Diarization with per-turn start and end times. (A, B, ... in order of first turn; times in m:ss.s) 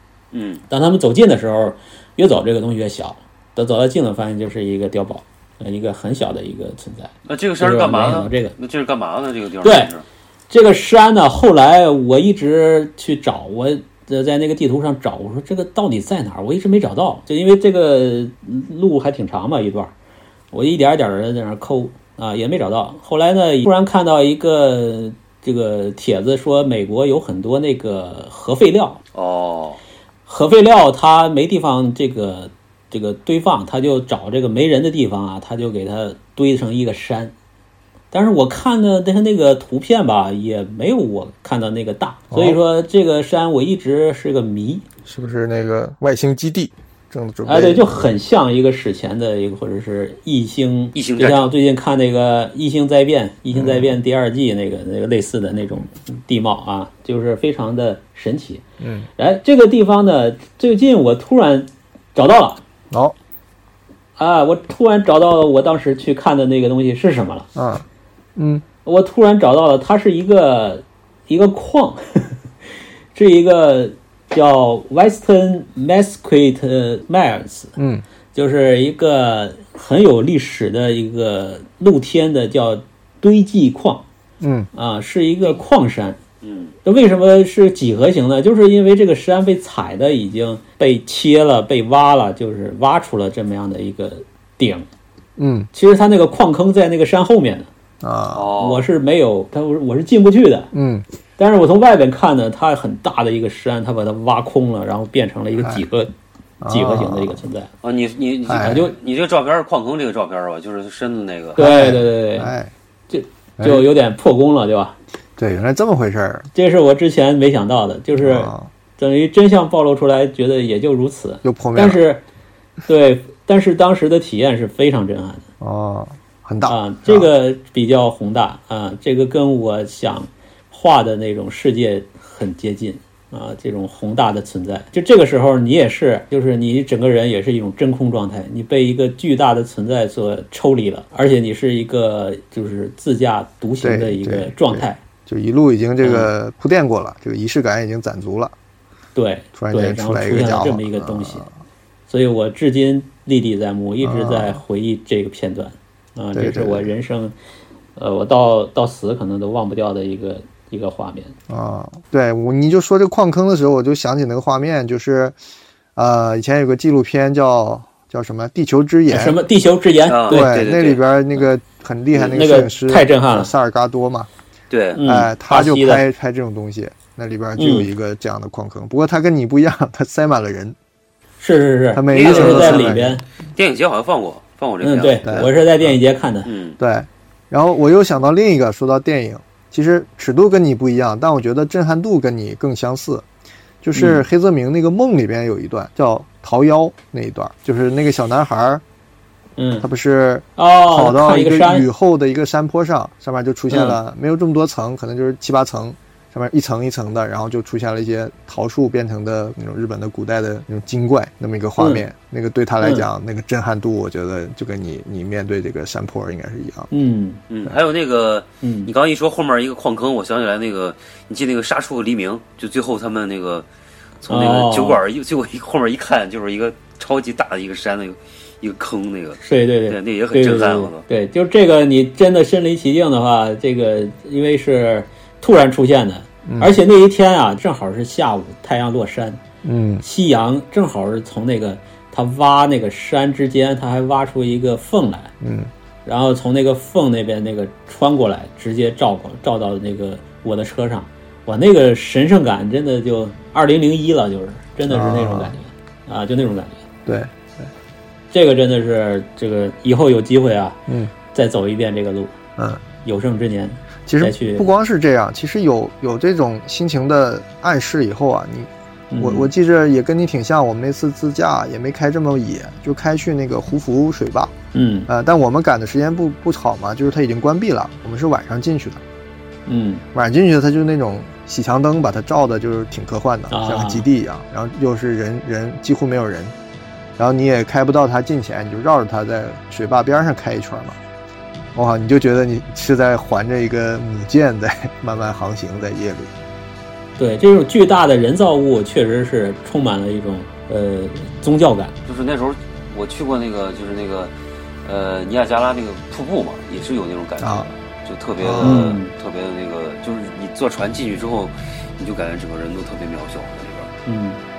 0:00.3-0:00.6 A
0:00.7-0:08.5 B
0:07.2-0:10.0 A
0:09.6-0:09.9 B
0:10.5-0:19.9 B
0:20.5-0:29.0 B
0:29.1-0:29.8 A
0:30.2-0:37.3 B
0:38.1-0:44.8 B
0:42.3-0:42.6 C
0:45.0-0:48.1 C
0:47.4-0:58.6 B
0:50.9-0:51.5 A
0:53.5-0:53.9 C
0:58.8-0:59.1 C
0:59.2-1:02.6 B
1:04.2-1:07.5 B
1:07.5-1:07.8 C
1:08.4-1:08.6 C
1:08.8-1:12.4 B
1:13.1-1:17.7 B
1:17.8-1:18.0 C
1:18.3-1:24.0 B
1:24.4-1:24.7 C
1:24.7-1:26.2 B
1:26.4-1:26.7 A
1:26.8-1:34.8 B
1:35.4-1:35.7 C
1:35.7-1:37.7 B
1:38.0-1:38.5 C
1:38.3-1:38.9 A
1:38.6-1:40.7 B
1:40.7-1:41.0 C
1:41.4-1:46.1 B
1:46.6-1:47.4 C
1:46.7-1:47.7 B
1:47.8-1:51.6 A
1:48.4-1:48.8 C
1:48.6-1:48.9 B
1:51.6-1:52.5 B
1:51.6-1:52.7 C
1:53.1-1:55.0 B
1:53.6-1:53.9 C
1:55.4-1:56.5 C
1:56.5-2:02.2 B
1:58.2-1:58.7 C
2:01.4-2:02.0 C
2:02.9-2:05.4 B
2:05.6-2:07.3 C
2:06.6-2:25.0 B
2:23.8-2:28.5 C
2:26.0-2:26.3 B
2:29.1-2:31.5 B
2:29.5-2:31.5 C
2:32.1-2:37.3 B
2:34.0-2:34.6 C
2:36.3-2:36.9 C
2:38.0-2:41.3 B
2:41.5-2:45.4 C
2:46.0-2:49.4 C
2:49.1-2:50.6 B
2:50.1-2:51.0 A
2:50.3-2:54.3 C
2:52.2-2:53.5 B
2:54.7-2:55.0 A
2:55.0-2:56.0 B
2:55.0-3:00.8 C
2:57.6-2:57.9 B
3:01.4-3:03.2 B
3:01.9-3:03.2 C
3:02.1-3:03.0 A
3:03.5-3:05.5 A
3:04.8-3:06.5 B
3:05.2-3:06.0 C
3:06.4-3:06.8 A
3:06.8-3:13.2 C
3:13.8-3:18.8 C
3:13.9-3:14.2 B
3:19.6-3:19.9 B
3:19.8-3:36.9 C
3:20.6-3:21.8 B
3:23.7-3:24.0 B
3:31.8-3:32.0 B
3:32.8-3:33.1 B
3:36.9-3:37.4 B
3:37.5-3:43.7 A
3:38.6-3:38.9 B
3:44.2-3:51.0 A
3:44.3-3:45.0 B
3:49.4-3:59.4 B
3:56.4-3:56.8 C
3:59.6-4:00.0 C
4:00.0-4:05.3 B
4:05.4-4:05.7 C
4:06.0-4:16.8 B
4:14.9-4:15.5 C
4:17.0-4:17.7 C
4:18.3-4:20.8 B
4:21.3-4:22.4 B
4:22.6-4:22.8 C
4:23.0-4:24.7 B
4:24.0-4:34.5 C
4:29.1-4:29.5 B
4:34.7-4:35.1 B
4:35.1-4:39.0 C
4:39.7-4:40.0 B
4:40.1-4:46.5 C
4:43.5-4:44.1 B
4:47.2-4:51.0 C
4:51.7-4:56.3 C
4:57.2-5:01.9 B
5:02.0-5:04.3 A
5:04.8-5:13.9 A
5:07.4-5:07.7 C
5:08.4-5:08.9 C
5:08.6-5:09.1 B
5:14.0-5:14.4 B